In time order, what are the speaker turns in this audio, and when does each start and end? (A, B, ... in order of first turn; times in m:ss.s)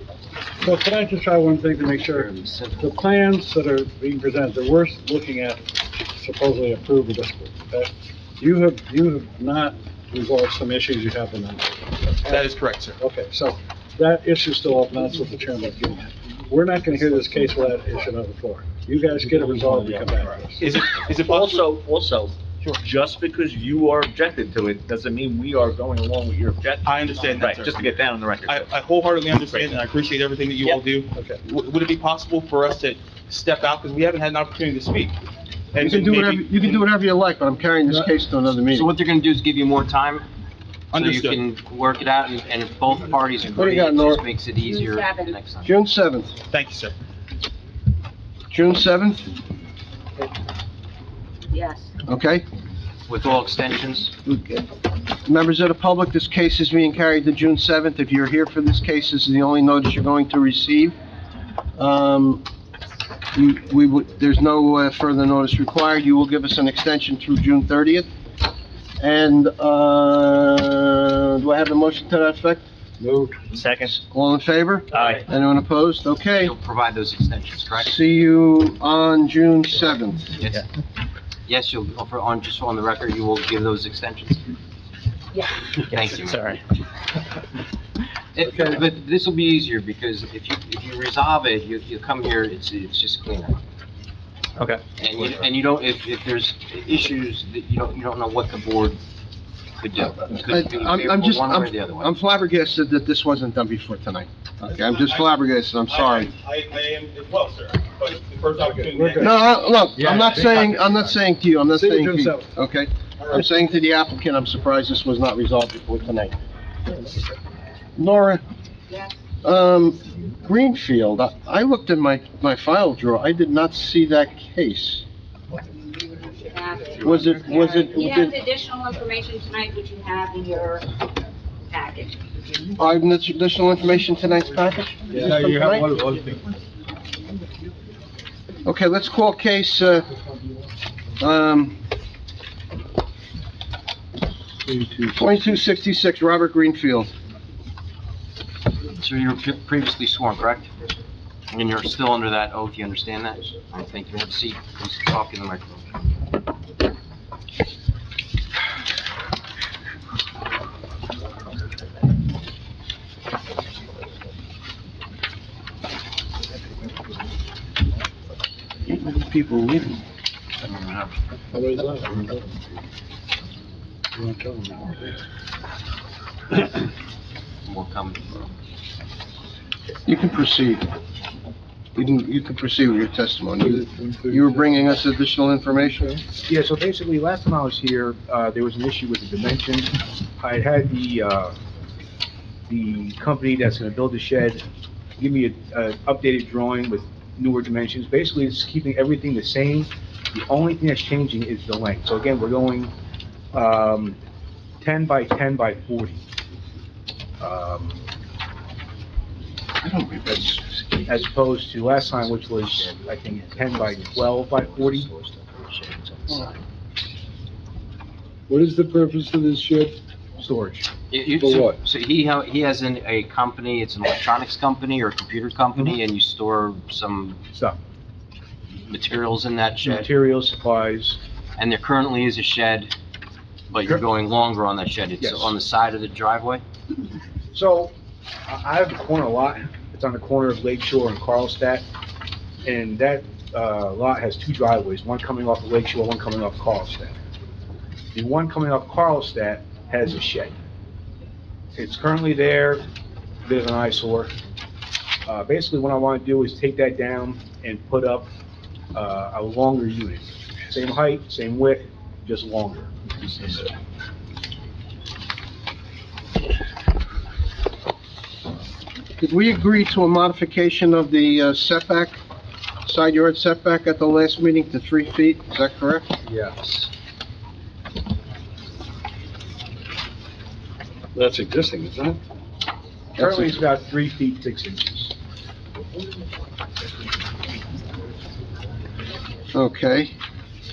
0:00.6-0:11.7 A
0:01.9-0:03.0 B
0:12.2-0:20.8 A
0:12.2-0:13.0 C
0:19.5-0:20.4 D
0:20.6-0:21.7 C
0:21.2-0:28.6 D
0:26.8-0:27.9 C
0:28.4-0:35.1 C
0:35.7-0:36.8 C
0:35.8-0:38.9 E
0:38.7-0:40.2 B
0:40.9-0:41.4 C
0:40.9-0:45.7 B
0:43.5-0:44.2 E
0:44.6-0:45.4 F
0:45.6-0:46.3 E
0:46.5-0:46.9 C
0:48.5-0:49.3 E
0:51.5-0:51.9 F
0:52.0-0:52.4 E
0:53.1-0:54.1 B
0:54.2-0:54.6 E
0:55.2-1:01.0 E
1:01.8-1:02.4 E
1:03.3-1:08.1 E
1:09.0-1:12.6 E
1:13.0-1:13.4 A
1:13.9-1:16.5 E
1:16.3-1:17.9 B
1:17.8-1:20.3 E
1:20.4-1:20.6 B
1:21.4-1:24.4 B
1:25.9-1:26.5 B
1:28.3-1:33.6 B
1:35.0-1:39.0 B
1:39.8-1:42.1 B
1:40.4-1:46.3 E
1:44.6-1:45.3 C
1:45.9-1:49.5 C
1:48.7-1:49.3 A
1:49.2-1:56.4 E
1:51.7-1:52.5 A
1:53.2-1:53.6 C
1:58.0-1:58.4 E
1:58.9-1:59.1 F
1:59.4-2:05.0 E
2:06.3-2:10.9 F
2:07.0-2:08.4 E
2:11.7-2:12.2 F
2:12.8-2:15.9 E
2:15.1-2:16.5 C
2:18.6-2:20.1 E
2:21.2-2:21.8 E
2:24.6-2:25.3 A
2:25.2-2:27.1 E
2:28.9-2:30.7 B
2:31.5-2:35.8 B
2:48.9-2:50.0 E
2:51.5-2:52.4 A
2:54.2-2:55.2 A
2:57.6-2:58.5 B
3:00.0-3:00.9 E
3:01.9-3:06.2 E
3:03.6-3:04.7 A
3:06.4-3:11.5 G
3:12.7-3:14.6 G
3:15.2-3:22.9 G
3:23.5-3:24.2 G
3:24.8-3:26.2 G
3:27.4-3:28.0 G
3:31.0-3:35.1 G
3:38.5-3:39.9 A
3:40.4-3:40.9 G
3:41.1-3:47.4 B
3:41.4-3:41.8 A
3:48.8-3:50.1 B
3:49.8-3:51.2 G
3:51.6-3:52.9 B
3:53.7-3:56.6 B
3:55.2-3:55.5 G
3:57.5-3:57.9 G
3:58.5-4:01.8 G
4:02.6-4:07.1 G
4:08.1-4:10.5 G
4:11.7-4:12.8 G
4:13.4-4:14.3 G
4:15.2-4:18.3 G
4:18.9-4:23.7 G
4:29.2-4:32.2 E
4:32.8-4:36.1 E
4:41.1-4:42.2 A
4:43.2-4:43.6 E
4:43.2-4:45.1 G
4:49.5-4:50.1 E